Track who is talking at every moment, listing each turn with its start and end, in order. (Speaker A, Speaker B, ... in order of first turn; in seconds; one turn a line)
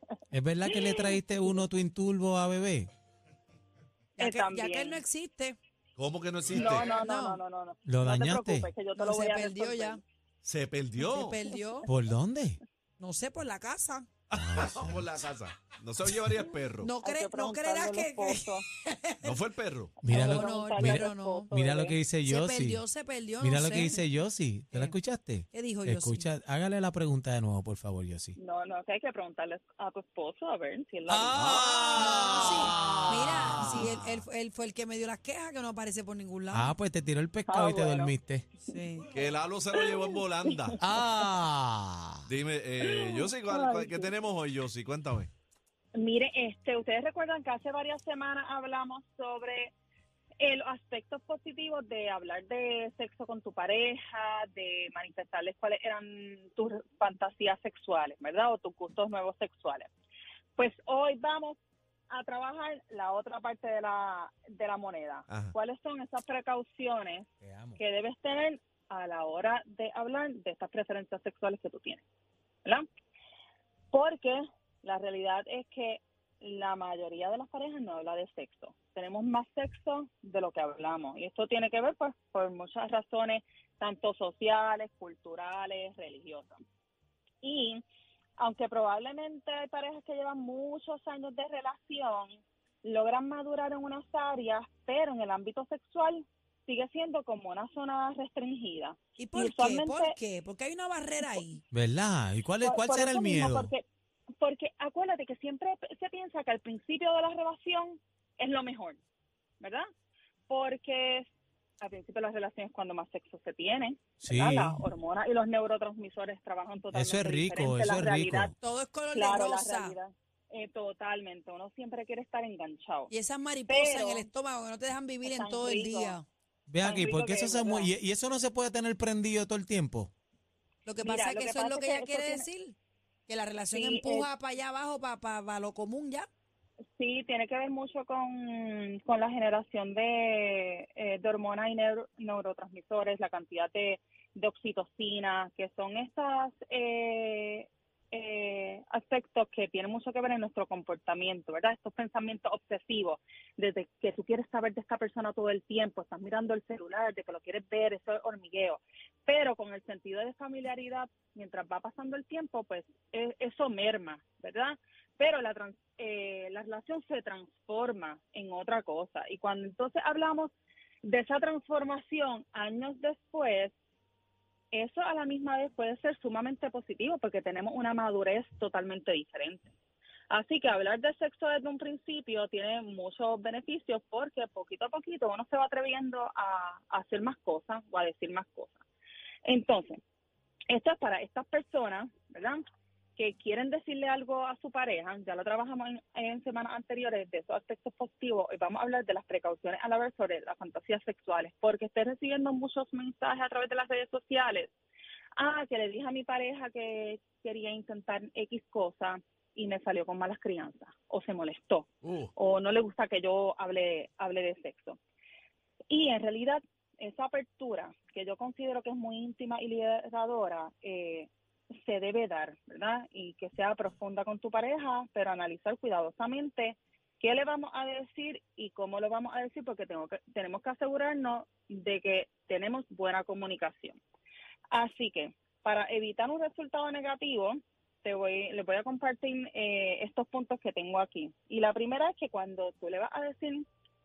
Speaker A: 0.3-2.9
Speaker B: 0.7-1.6
Speaker C: 4.2-5.6
Speaker B: 4.2-5.0
Speaker D: 6.0-6.9
Speaker B: 6.5-10.0
Speaker C: 6.8-7.4
Speaker A: 7.9-8.7
Speaker C: 9.0-10.0
Speaker D: 10.4-11.4
Speaker C: 11.0-11.9
Speaker A: 11.9-12.6
Speaker C: 13.0-14.1
Speaker D: 14.3-16.9
Speaker A: 14.3-15.0
Speaker C: 16.8-19.4
Speaker B: 17.0-18.6
Speaker D: 19.2-20.0
Speaker B: 20.0-21.9
Speaker A: 20.0-22.8
Speaker C: 20.1-21.5
Speaker C: 22.2-24.1
Speaker A: 23.4-28.4
Speaker C: 24.7-25.0
Speaker C: 25.5-26.3
Speaker B: 28.4-31.6
Speaker A: 31.1-34.0
Speaker D: 31.3-33.0
Speaker C: 32.0-36.7
Speaker A: 36.5-38.5
Speaker B: 37.5-38.1
Speaker C: 38.7-39.1
Speaker D: 39.1-40.8
Speaker B: 39.7-40.7
Speaker A: 40.8-42.3
Speaker D: 42.3-45.3
Speaker B: 42.8-44.1
Speaker B: 46.0-49.7
Speaker B: 50.4-59.9
Speaker B: 60.6-61.6
Speaker B: 62.1-72.0
Speaker D: 65.3-65.5
Speaker A: 67.4-67.8
Speaker B: 73.9-86.6
Speaker B: 87.4-87.8
Speaker B: 88.4-100.2
Speaker C: 99.2-101.6
Speaker A: 101.7-103.7
Speaker B: 102.6-103.8
Speaker B: 104.4-109.0
Speaker B: 109.6-109.9
Speaker B: 110.5-111.3
Speaker B: 111.8-118.5
Speaker A: 114.2-114.8
Speaker A: 116.9-118.5
Speaker C: 118.6-120.0
Speaker B: 119.1-123.1
Speaker C: 123.1-126.3
Speaker B: 123.7-124.3
Speaker B: 125.2-126.2
Speaker A: 126.7-130.1
Speaker B: 126.8-127.9
Speaker C: 130.8-132.8
Speaker B: 131.0-132.5
Speaker C: 133.3-136.3
Speaker B: 133.7-134.3
Speaker B: 137.0-173.7
Speaker B: 174.7-179.7
Speaker B: 180.3-188.8
Speaker B: 189.4-190.0
Speaker B: 190.7-192.6
Speaker B: 193.2-204.7
Speaker B: 205.4-215.0
Speaker D: 212.1-212.3
Speaker B: 215.9-221.3
Speaker B: 221.8-234.0
Speaker B: 234.7-243.7